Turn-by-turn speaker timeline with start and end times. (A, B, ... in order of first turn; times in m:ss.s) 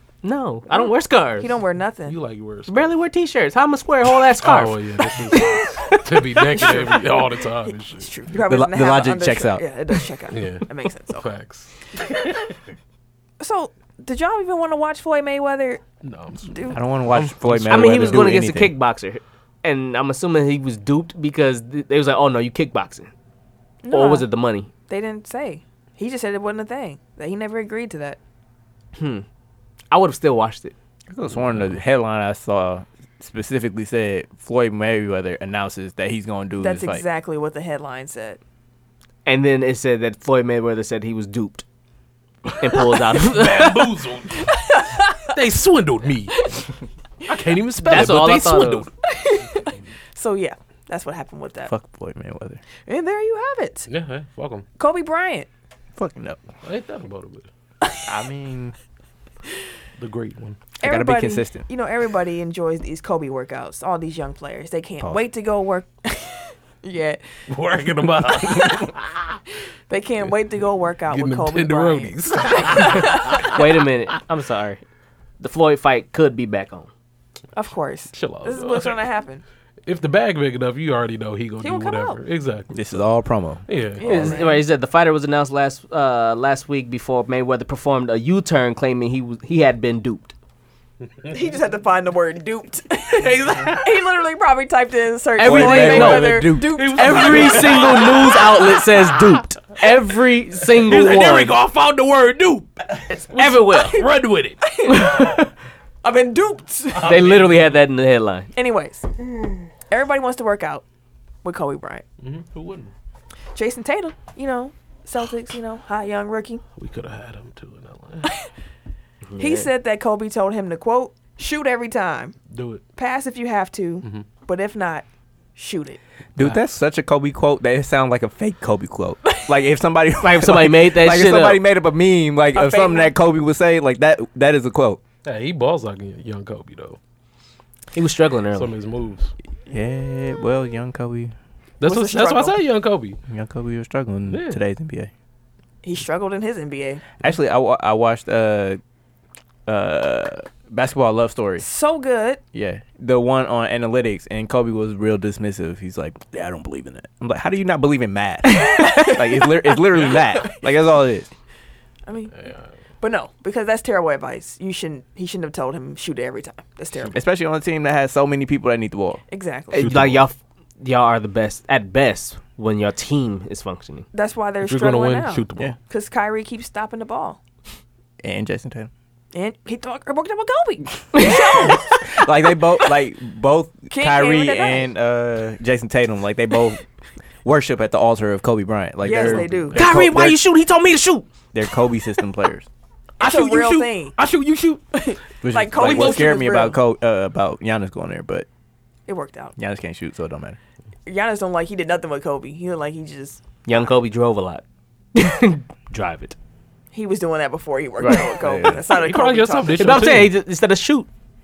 0:00.2-0:01.6 A
0:00.7-0:02.2 B
0:02.0-0:02.9 C
0:02.7-0:05.4 A
0:04.4-0:08.1 C
0:05.3-0:06.0 B
0:06.5-0:06.8 A
0:06.5-0:11.3 B
0:08.4-0:09.7 D
0:10.3-0:12.4 C
0:13.4-0:15.8 B
0:16.0-0:18.3 C
0:16.4-0:16.8 B
0:16.7-0:18.7 D
0:17.6-0:23.1 A
0:23.8-0:24.3 B
0:23.9-0:24.7 A
0:24.9-0:28.2 B
0:29.0-0:29.2 A
0:29.9-0:30.7 A
0:31.1-0:37.0 D
0:31.3-0:31.7 C
0:36.6-0:38.4 B
0:39.2-0:41.6 A
0:42.4-0:44.7 C
0:42.6-0:44.0 A
0:44.4-0:45.3 B
0:45.2-0:46.5 C
0:47.3-0:48.9 C
0:47.8-0:48.2 B
0:47.8-0:48.9 A
0:49.0-0:51.7 B
0:51.6-0:52.6 D
0:52.8-0:53.9 B
0:53.9-0:54.6 C
0:54.8-0:55.5 B
0:56.0-0:56.4 D
0:56.6-0:57.5 C
0:58.0-0:58.7 D
1:00.0-1:00.6 C
1:00.8-1:01.6 D
1:00.8-1:07.2 B
1:07.5-1:09.1 C
1:09.9-1:13.6 B
1:11.1-1:13.6 C
1:12.7-1:14.8 A
1:15.4-1:16.9 A
1:17.5-1:19.4 B
1:18.1-1:19.0 C
1:19.8-1:23.0 C
1:21.6-1:22.2 B
1:22.7-1:23.6 D
1:23.7-1:24.4 C
1:24.0-1:30.3 A
1:24.0-1:24.6 B
1:31.1-1:31.3 C
1:31.3-1:38.2 B
1:33.0-1:34.0 C
1:35.4-1:41.6 A
1:35.4-1:37.6 D
1:36.6-1:39.2 C
1:40.7-1:44.6 C
1:43.2-1:44.0 A
1:44.6-1:45.4 B
1:44.9-1:45.5 A
1:46.0-1:47.3 B
1:46.9-1:47.7 C
1:47.0-1:48.5 A
1:48.5-1:49.1 B
1:49.9-1:50.8 B
1:51.4-1:52.0 B
1:52.2-1:52.9 C
1:53.5-1:56.6 B
1:56.8-1:58.3 C
1:59.2-1:59.7 A
1:59.4-2:02.3 B
2:02.5-2:02.8 C
2:03.0-2:06.0 B
2:06.4-2:15.0 D
2:10.2-2:11.6 A
2:12.5-2:13.1 B
2:15.2-2:17.0 C
2:17.9-2:18.8 A
2:18.5-2:19.3 C
2:19.7-2:21.3 D
2:21.8-2:23.2 C
2:21.8-2:22.6 B
2:23.3-2:25.1 D
2:24.3-2:24.6 C
2:25.8-2:27.0 B
2:27.2-2:28.8 D
2:29.6-2:31.6 D
2:31.6-2:32.4 B
2:32.5-2:41.3 D
2:38.6-2:39.4 B
2:40.1-2:40.5 B
2:42.0-2:42.3 B
2:42.3-2:42.7 C
2:43.0-2:47.2 B
2:47.1-2:49.2 D
2:49.3-2:49.9 B
2:49.7-2:54.1 A
2:49.7-2:50.3 C
2:54.1-2:57.4 B
2:54.6-2:55.7 C
2:58.2-2:58.9 D
2:59.3-3:02.1 B
3:01.1-3:01.8 A
3:01.9-3:06.8 D
3:03.9-3:04.9 B
3:07.4-3:10.4 D
3:09.0-3:09.8 B
3:09.7-3:11.3 A
3:11.5-3:12.7 D
3:13.2-3:14.2 B
3:13.2-3:14.8 C
3:14.9-3:16.8 B
3:15.4-3:18.5 D
3:15.8-3:16.6 C
3:19.1-3:19.5 B
3:19.6-3:20.6 D
3:21.0-3:23.4 B
3:23.6-3:24.6 A
3:25.1-3:26.3 A
3:26.9-3:30.1 B
3:28.0-3:28.8 D
3:28.8-3:30.4 C
3:29.8-3:31.1 A